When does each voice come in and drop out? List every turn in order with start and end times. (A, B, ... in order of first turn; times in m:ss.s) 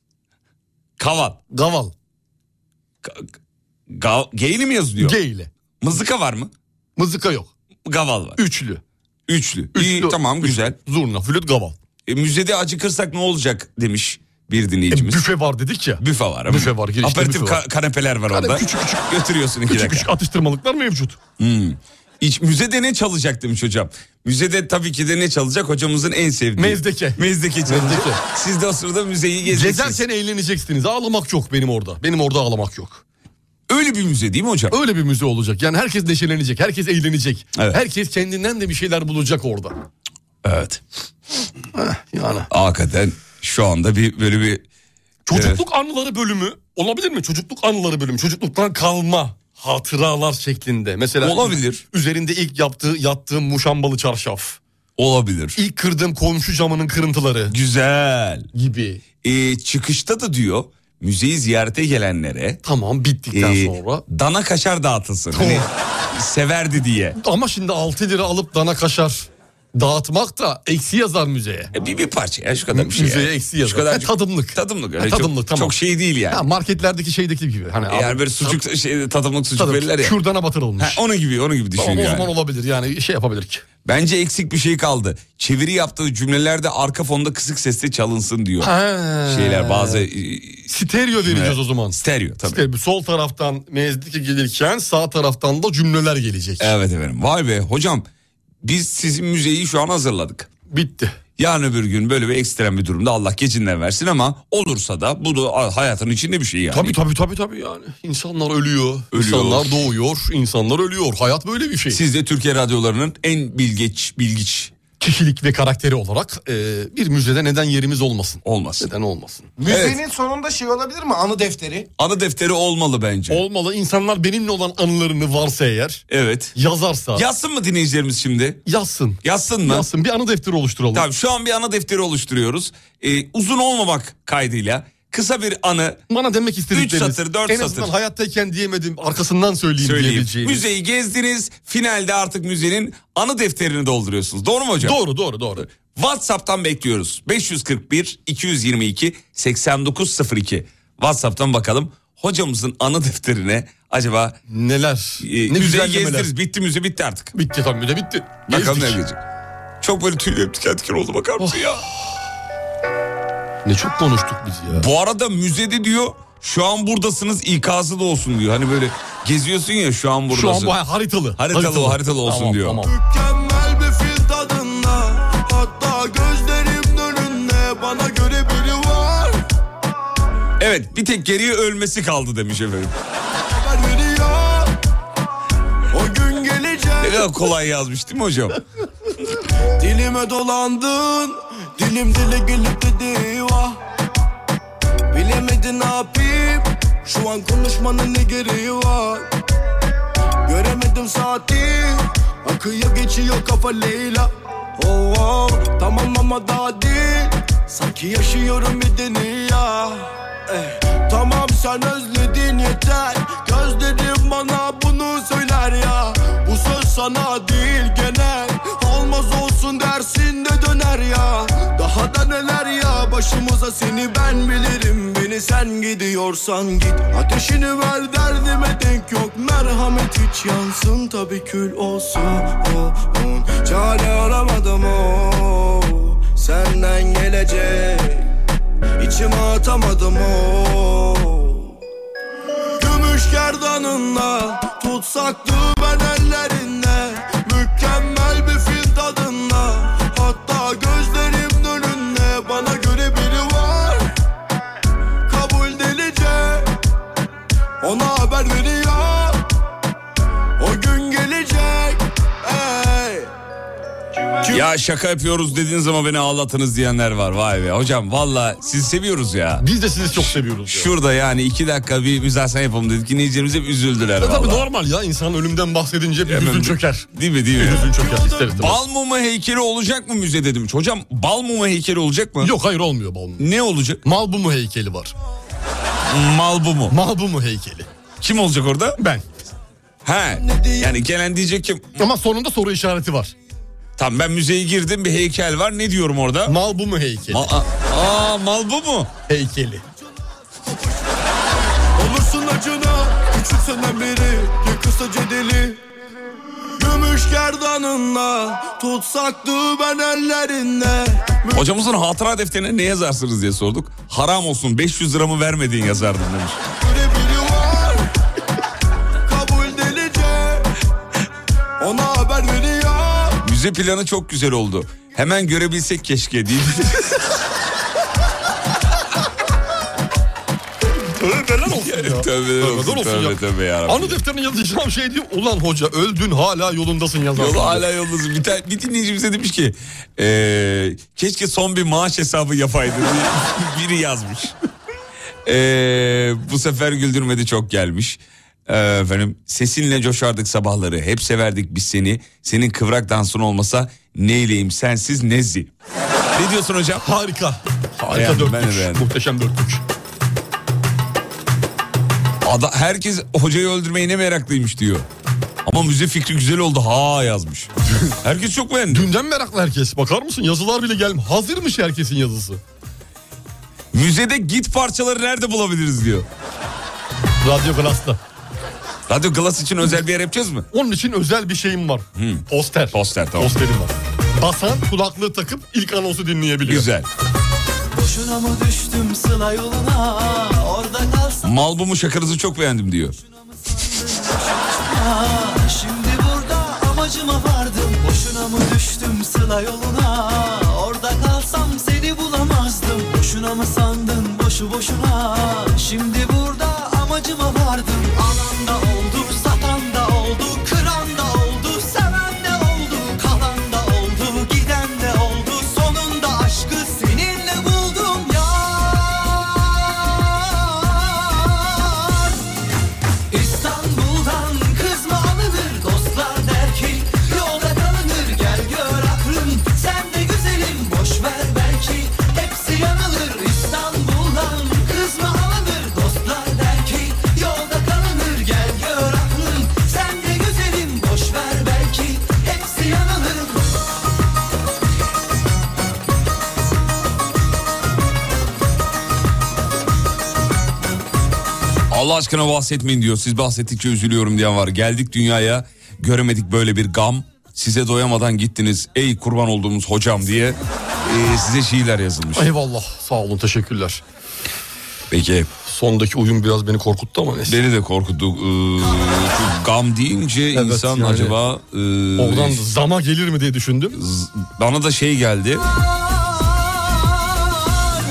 0:01.0-0:01.4 A
0:01.5-0:01.9 B
0:03.9-0:05.2 A
0:05.0-0:05.5 B
0:05.8-0:06.5 A
0:07.0-0:07.5 B
0:07.8-0:08.4 A
0:08.4-0:08.8 B
0:09.3-0:10.8 A
0:09.7-0:11.8 B
0:12.0-0:15.2 A
0:14.9-0:17.6 B
0:16.0-0:20.1 A
0:18.3-0:19.0 B
0:19.7-0:21.2 B
0:21.4-0:30.0 A
0:26.6-0:28.2 B
0:29.4-0:33.0 B
0:33.7-0:34.8 A
0:34.7-0:39.7 B
0:40.4-0:40.8 A
0:41.7-0:42.5 B
0:42.5-0:44.6 A
0:45.2-0:54.6 B
0:45.3-0:45.6 A
0:51.2-0:51.8 A
0:55.0-0:55.6 A
0:55.6-0:57.5 B
0:57.5-0:58.5 A
0:58.5-0:59.0 B
0:59.2-1:02.6 A
1:02.6-1:04.0 B
1:03.3-1:07.2 A
1:05.3-1:05.7 B
1:07.2-1:11.7 B
1:11.7-1:16.4 A
1:12.7-1:15.8 B
1:16.3-1:18.6 B
1:17.9-1:20.2 A
1:19.6-1:21.0 B
1:20.8-1:22.3 A
1:21.8-1:23.6 B
1:23.8-1:28.7 A
1:28.6-1:30.0 B
1:29.2-1:30.7 A
1:30.7-1:36.7 B
1:31.2-1:32.6 A
1:36.6-1:38.1 A
1:38.6-1:40.5 A
1:40.7-1:41.1 B
1:41.4-1:47.0 A
1:46.7-1:52.0 B
1:49.1-1:49.9 A
1:51.9-1:54.7 A
1:55.0-1:59.6 B
1:58.4-1:58.9 A
1:59.6-2:01.9 C
1:59.7-2:00.0 A
2:02.0-2:03.4 A
2:03.3-2:06.0 B
2:06.1-2:06.5 A
2:06.5-2:07.2 B
2:07.1-2:08.6 A
2:08.6-2:11.0 B
2:09.2-2:09.9 A
2:10.9-2:16.0 A
2:16.1-2:20.6 B
2:16.7-2:17.9 A
2:19.8-2:25.0 A
2:24.8-2:25.6 B
2:25.8-2:34.4 A
2:34.5-2:36.3 B
2:35.2-2:37.3 A
2:37.3-2:39.0 B
2:38.5-2:39.2 A
2:39.8-2:41.8 A
2:41.4-2:41.8 B
2:43.6-2:44.8 B
2:44.7-2:50.8 A
2:50.3-2:52.9 B
2:51.4-2:52.8 A
2:52.9-2:59.4 D
3:00.6-3:02.9 A
3:03.5-3:04.7 D
3:05.9-3:07.2 D
3:07.0-3:08.6 A
3:09.8-3:13.8 D
3:15.1-3:19.2 D
3:20.4-3:58.3 D
3:59.0-4:01.7 D
4:02.8-4:14.1 D
4:15.3-4:16.7 D
4:17.8-4:19.4 D
4:20.6-4:23.3 D
4:24.4-4:34.6 A
4:29.6-4:30.9 B
4:34.2-4:38.8 B
4:36.3-4:42.5 A
4:42.4-4:43.4 B
4:43.4-4:44.0 A
4:44.0-4:45.1 B
4:46.1-4:47.0 A
4:46.9-4:47.9 B
4:48.2-4:49.0 A
4:49.0-4:49.2 B
4:50.0-4:51.9 A
4:52.0-4:53.3 B
4:54.0-4:56.6 A
4:56.4-4:57.5 B
4:57.3-4:59.1 A
4:59.3-4:59.8 B
5:01.9-5:05.8 D
5:06.8-5:11.6 D
5:11.5-5:16.6 A
5:16.8-5:18.0 D
5:19.3-5:20.6 D
5:21.8-5:23.4 D
5:23.4-5:27.2 A
5:31.1-5:37.8 B
5:31.6-5:34.2 A
5:37.3-5:44.5 A
5:45.4-5:55.7 A
5:56.3-5:57.0 A
5:57.0-5:59.8 B
5:58.1-5:59.0 A
6:02.4-6:05.1 A
6:05.6-6:07.7 A
6:08.2-6:09.1 A
6:08.9-6:12.6 B
6:13.9-6:16.3 A
6:17.4-6:18.2 B
6:19.1-6:20.7 A
6:20.7-6:26.9 B
6:22.2-6:23.6 A
6:26.6-6:27.1 A
6:27.9-6:31.5 E
6:31.4-6:33.1 A
6:34.0-7:02.4 E
7:03.3-7:23.8 E
7:31.9-7:42.5 A
7:42.3-7:44.0 B
7:45.1-7:45.5 A
7:45.6-7:47.6 B
7:47.5-7:52.6 A
7:50.5-7:51.4 B
7:52.2-7:54.0 B
7:53.9-7:55.6 A